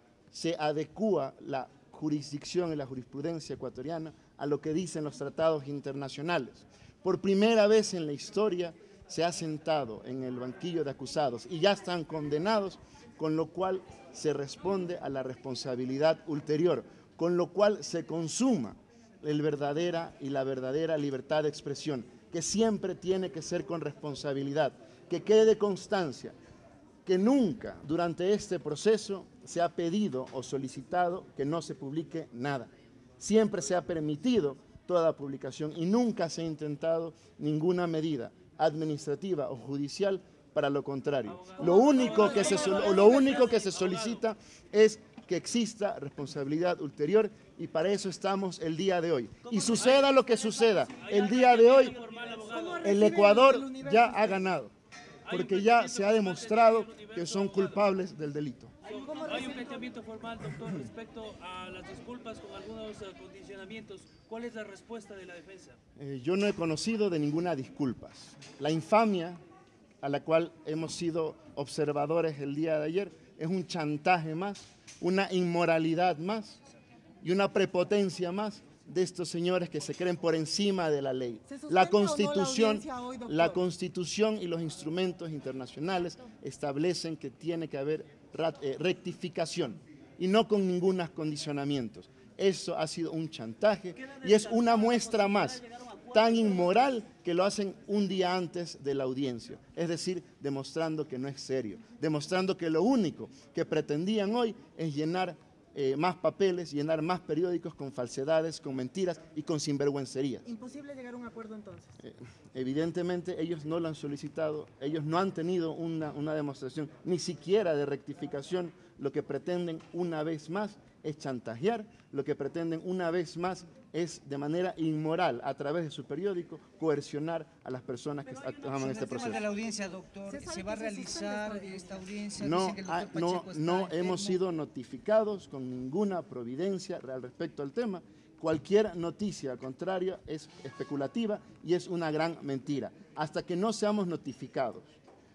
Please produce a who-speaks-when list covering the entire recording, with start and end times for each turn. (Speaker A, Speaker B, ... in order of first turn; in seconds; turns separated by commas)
Speaker A: 0.3-26.4, Speaker A: 27.0-52.0, Speaker B: 41.3-44.2, Speaker B: 49.5-52.9, Speaker C: 52.2-54.4, Speaker A: 52.8-54.7, Speaker B: 55.3-57.8, Speaker A: 55.3-58.7, Speaker C: 58.8-59.9, Speaker B: 58.8-65.8, Speaker A: 66.0-69.4, Speaker A: 70.0-76.6, Speaker A: 77.2-110.5, Speaker C: 81.5-83.6, Speaker B: 94.0-95.1, Speaker C: 110.5-112.0, Speaker A: 112.0-129.4, Speaker D: 128.8-134.4, Speaker C: 130.3-132.0, Speaker A: 132.4-144.9